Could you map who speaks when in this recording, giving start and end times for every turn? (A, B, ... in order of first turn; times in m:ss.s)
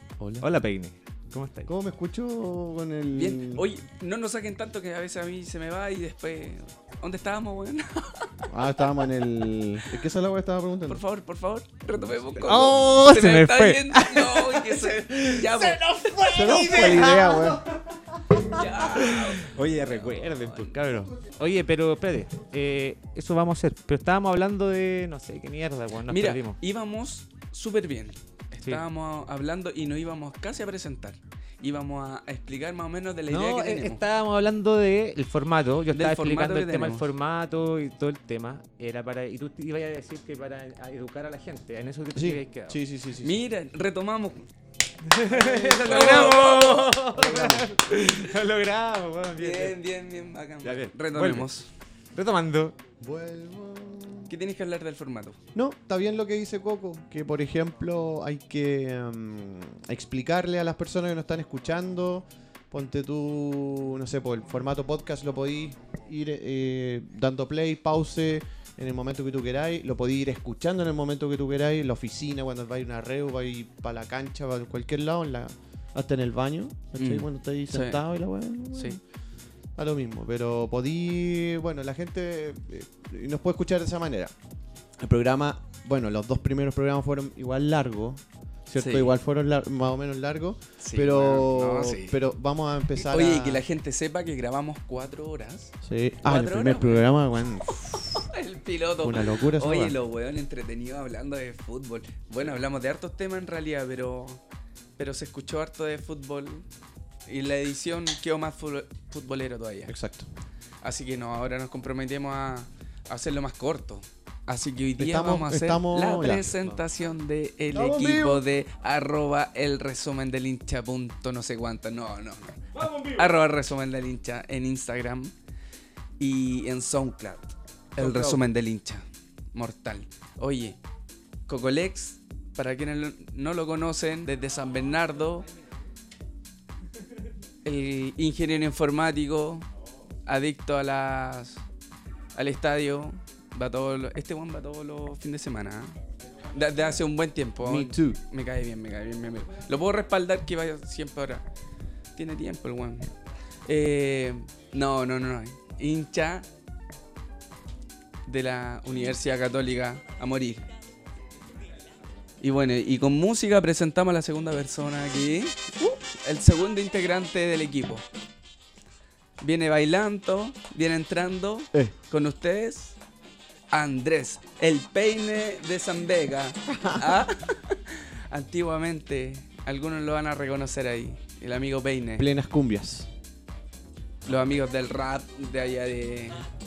0:00.2-0:00.5 A
0:00.4-0:01.7 B
0:01.6-0:03.7 A
0:03.2-0:08.5 C
0:08.5-0:11.0 A
0:10.9-0:17.3 C
0:12.4-0:12.8 A
0:12.4-0:26.6 B
0:16.3-0:17.6 A
0:18.4-0:20.7 C
0:26.1-0:34.0 C
0:33.3-0:42.8 B
0:35.9-0:37.0 C
0:42.1-0:43.4 A
0:43.2-0:44.4 C
0:45.0-0:49.7 B
0:45.3-0:45.9 A
0:45.4-0:47.1 C
0:47.2-0:47.7 A
0:49.4-0:51.7 C
0:50.6-0:51.5 B
0:52.1-0:52.8 B
0:53.0-0:54.3 A
0:54.3-0:55.4 C
0:55.5-1:19.0 A
1:17.0-1:18.0 C
1:18.7-1:19.0 C
1:19.8-1:24.3 A
1:25.0-1:33.6 A
1:28.8-1:29.1 C
1:30.8-1:32.2 C
1:33.0-1:37.0 C
1:35.8-1:38.2 A
1:38.1-1:44.4 C
1:39.0-1:40.0 A
1:45.0-1:46.6 C
1:47.2-1:50.0 C
1:49.9-1:50.3 A
1:50.8-2:05.3 C
1:55.0-1:56.8 A
1:57.7-1:58.4 A
2:02.8-2:03.3 B
2:06.2-2:09.0 C
2:08.0-2:08.4 B
2:09.5-2:10.8 C
2:11.5-2:15.5 C
2:17.6-2:19.7 C
2:20.3-2:21.6 C
2:22.3-2:25.9 C
2:26.5-2:31.4 C
2:27.6-2:28.2 A
2:32.2-2:33.1 C
2:33.6-2:36.4 C
2:38.2-2:40.7 C
2:42.4-2:48.0 C
2:49.4-2:53.0 C
2:53.7-3:02.2 C
2:56.7-2:57.2 A
3:02.2-3:03.1 A
3:04.2-3:06.4 C